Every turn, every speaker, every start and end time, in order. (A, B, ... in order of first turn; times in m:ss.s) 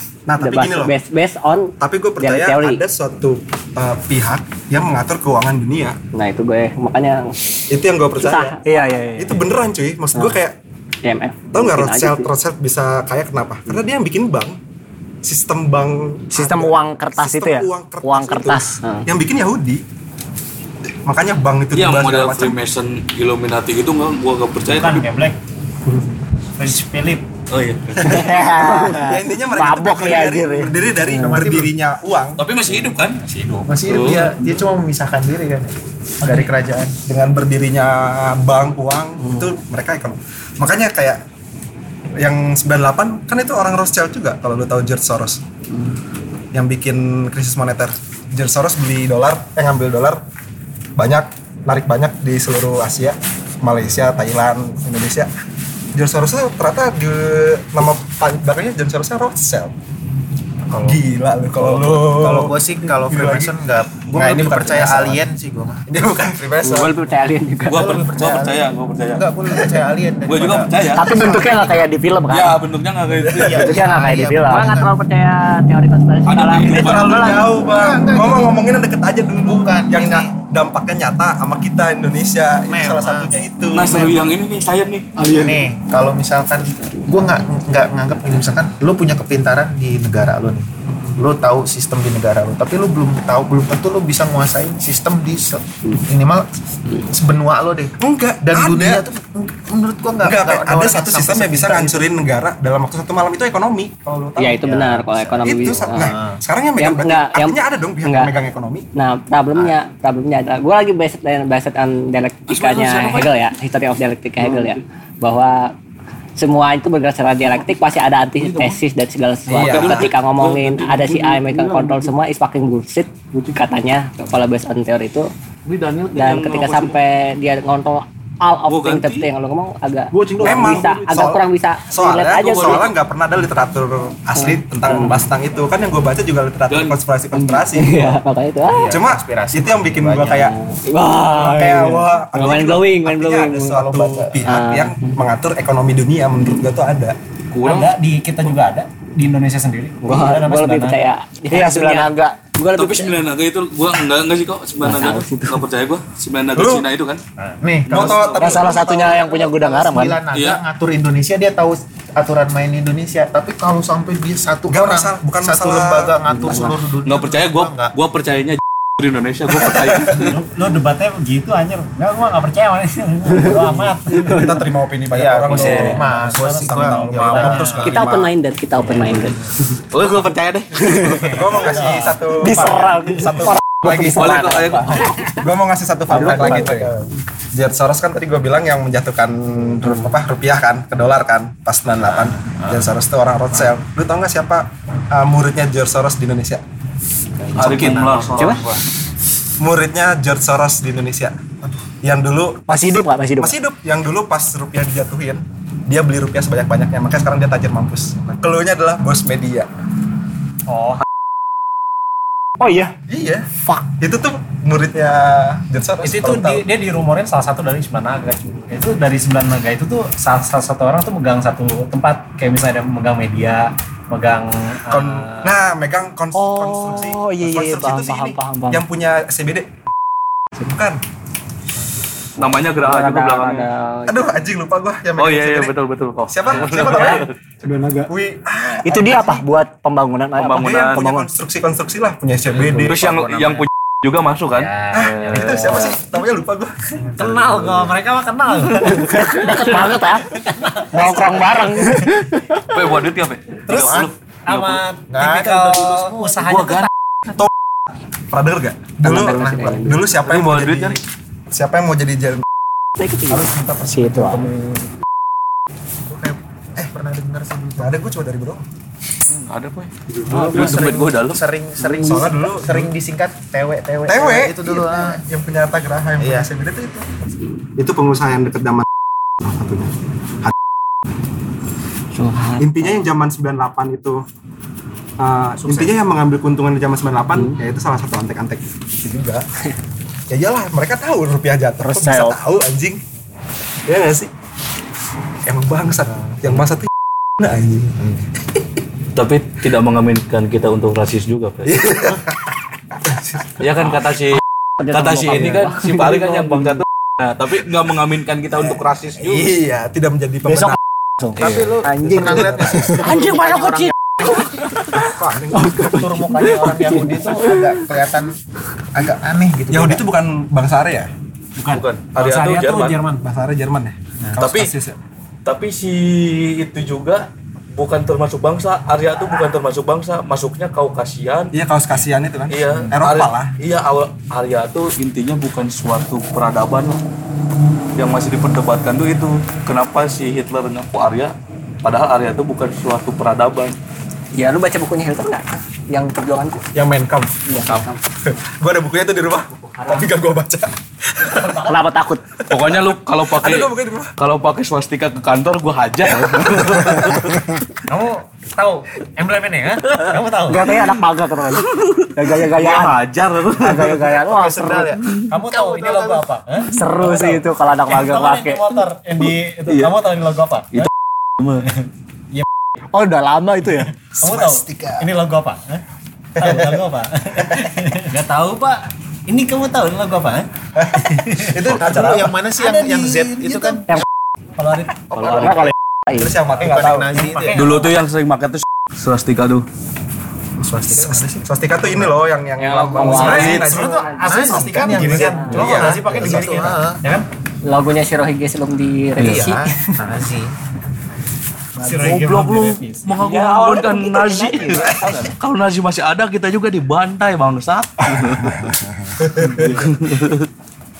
0:00.3-0:00.9 A
0:00.4-0:02.8 B
0:01.8-0:06.0 A
0:06.1-0:07.5 B
0:07.7-0:08.6 A
0:08.2-0:08.8 B
0:08.6-0:09.4 C
0:09.2-0:10.6 A
0:11.0-0:12.3 B
0:11.5-0:14.6 A
0:15.2-0:19.8 A
0:16.3-0:18.8 C
0:18.8-0:19.1 B
0:21.0-0:22.6 A
0:21.7-0:25.0 D
0:24.7-0:25.4 E
0:26.6-0:27.2 E
0:27.5-0:28.3 D
0:28.0-0:31.4 C
0:28.0-0:32.4 A
0:31.2-0:31.7 F
0:32.4-0:33.2 D
0:33.2-0:33.8 E
0:33.7-0:37.0 F
0:33.8-0:34.3 D
0:36.2-0:36.5 B
0:37.0-0:41.2 A
0:42.2-0:45.4 A
0:46.5-0:50.2 A
0:51.0-0:55.3 A
0:55.9-0:59.7 A
1:00.7-1:01.0 F
1:00.8-1:05.2 A
1:01.6-1:05.8 F
1:05.9-1:07.0 A
1:06.6-1:08.0 B
1:07.7-1:09.6 D
1:07.8-1:11.8 F
1:10.2-1:11.2 D
1:10.9-1:12.6 C
1:12.3-1:13.8 D
1:13.3-1:13.7 A
1:13.3-1:15.0 F
1:13.6-1:14.7 C
1:14.5-1:17.5 B
1:16.3-1:17.1 D
1:16.6-1:24.1 A
1:17.6-1:18.6 F
1:19.4-1:20.3 F
1:22.6-1:23.4 F
1:23.7-1:25.5 D
1:23.9-1:24.2 F
1:25.2-1:42.1 F
1:38.0-1:39.0 A
1:40.2-1:48.9 A
1:44.4-1:46.1 B
1:45.9-1:46.4 F
1:46.8-1:48.3 B
1:49.0-1:55.7 B
1:52.5-1:53.3 D
1:54.4-1:54.8 D
1:56.4-2:05.3 B
1:58.4-1:58.8 D
1:59.5-2:02.1 D
1:59.5-2:00.1 A
2:05.6-2:07.0 D
2:06.1-2:12.9 B
2:08.7-2:09.3 D
2:10.1-2:11.0 E
2:10.4-2:18.2 A
2:12.4-2:12.9 D
2:14.3-2:15.3 B
2:16.7-2:17.0 D
2:17.7-2:19.0 B
2:18.7-2:19.0 E
2:18.9-2:20.5 A
2:19.0-2:20.5 F
2:20.5-2:23.8 B
2:21.3-2:27.2 A
2:23.8-2:24.5 F
2:24.4-2:25.2 B
2:27.5-2:27.9 D
2:27.6-2:31.0 E
2:30.0-2:33.2 B
2:31.5-2:32.5 C
2:32.7-2:37.2 D
2:34.8-2:35.6 B
2:36.5-2:36.9 A
2:37.6-2:38.2 F
2:37.8-2:38.7 D
2:37.9-2:39.5 A
2:38.3-2:40.2 C
2:39.4-2:47.9 F
2:40.3-2:40.6 D
2:44.7-2:46.2 A
2:46.3-2:50.2 D
2:49.8-2:54.6 E
2:54.2-2:58.3 A
2:55.1-2:57.8 F
2:55.5-2:57.9 E
2:55.6-2:55.9 D
2:57.8-2:59.4 B
2:58.9-2:59.3 E
2:59.9-3:01.2 D
3:00.9-3:01.2 C
3:01.2-3:04.4 A
3:01.3-3:02.2 E
3:02.3-3:05.1 C
3:03.9-3:05.0 D
3:05.3-3:06.9 A
3:06.1-3:07.1 C
3:07.5-3:16.6 A
3:12.2-3:12.8 E
3:17.5-3:18.8 D
3:17.6-3:18.5 E
3:19.6-3:29.7 A
3:22.7-3:23.6 C
3:30.7-3:31.0 E
3:32.6-3:32.9 C
3:33.1-3:33.4 A
3:34.0-3:36.6 A
3:36.0-3:45.6 E
3:44.9-3:49.7 A
3:46.3-3:48.8 C
3:50.6-3:51.0 A
3:52.4-3:53.7 D
3:52.4-3:54.3 B
3:54.1-3:55.7 A
3:55.2-3:57.3 D
3:56.3-3:57.3 A
3:57.6-3:58.1 C
3:58.0-3:59.4 A
3:58.8-4:01.3 C
4:00.4-4:01.0 D
4:00.5-4:03.5 A
4:02.7-4:05.9 D
4:04.5-4:05.9 E
4:04.9-4:06.8 A
4:07.0-4:11.3 E
4:09.0-4:10.4 C
4:09.5-4:09.9 B
4:10.9-4:12.8 C
4:12.7-4:14.8 D
4:13.7-4:14.1 A
4:14.5-4:16.9 E
4:15.1-4:16.3 F
4:16.3-4:16.9 D
4:18.3-4:21.0 A
4:19.0-4:20.0 B
4:19.2-4:19.9 F
4:20.2-4:21.0 D
4:21.5-4:22.4 A
4:23.0-4:23.5 B
4:23.3-4:24.9 A
4:23.9-4:24.5 C
4:26.1-4:26.9 A
4:26.8-4:28.0 F
4:27.8-4:28.6 A
4:29.3-4:31.4 D
4:30.3-4:35.2 F
4:30.3-4:30.7 A
4:32.0-4:32.9 A
4:34.1-4:37.0 A
4:36.2-4:36.5 F
4:37.8-4:38.8 A
4:39.4-4:40.5 A
4:42.1-4:43.0 B
4:42.6-4:44.2 A
4:45.2-4:49.4 A
4:45.6-4:45.9 E
4:50.3-4:53.0 A
4:51.8-4:52.4 C
4:53.8-4:54.3 A
4:55.4-4:58.2 A
4:59.1-5:01.8 D
5:01.6-5:02.4 A
5:03.0-5:03.6 A
5:03.6-5:09.5 D
5:04.8-5:06.8 B
5:08.5-5:10.8 A
5:10.4-5:11.5 C
5:11.4-5:13.9 F
5:11.4-5:11.7 D
5:11.8-5:12.6 B
5:12.7-5:13.2 C
5:12.9-5:13.9 D
5:14.9-5:16.3 A
5:15.6-5:16.1 B
5:15.7-5:18.4 F
5:16.1-5:16.9 E
5:19.0-5:20.0 F
5:19.7-5:21.1 A
5:21.6-5:23.2 E
5:21.7-5:23.0 D
5:23.2-5:25.0 A
5:24.4-5:24.7 D
5:25.4-5:31.5 D
5:31.5-5:33.5 A
5:32.5-5:37.0 D
5:38.0-5:43.8 D
5:44.3-5:46.6 B
5:46.7-5:51.7 A
5:47.5-5:48.0 B
5:51.4-5:51.8 E
5:51.7-5:52.2 C
5:52.5-5:54.2 A
5:52.5-5:57.4 D
5:56.2-5:56.7 A
5:57.0-5:57.4 C
5:57.9-6:00.8 E
6:00.5-6:03.0 C
6:00.7-6:00.9 D
6:01.5-6:04.1 D
6:03.6-6:05.2 C
6:04.0-6:06.3 F
6:05.2-6:10.9 E
6:06.6-6:08.8 C
6:11.6-6:12.4 E
6:12.9-6:14.1 C
6:14.0-6:15.8 E
6:14.2-6:14.6 A
6:14.6-6:15.0 F
6:16.4-6:21.9 E
6:16.4-6:16.8 A
6:20.8-6:22.3 A
6:21.9-6:23.9 F
6:22.6-6:24.0 E
6:24.6-6:25.1 E
6:25.1-6:25.7 D
6:25.2-6:25.7 F
6:26.1-6:27.3 A
6:26.6-6:27.8 E
6:26.6-6:27.6 F
6:27.5-6:29.6 D
6:30.6-6:31.3 F
6:30.8-6:36.6 A
6:31.8-6:32.1 F
6:32.6-6:34.3 B
6:33.0-6:37.2 E
6:34.2-6:37.0 F
6:37.7-6:39.7 B
6:39.2-6:40.5 F
6:41.8-6:43.1 E
6:41.9-6:48.6 D
6:43.2-6:43.7 B
6:43.3-6:45.2 C
6:44.6-6:44.9 B
6:49.3-6:49.7 A
6:49.4-6:49.9 C
6:49.6-6:50.5 D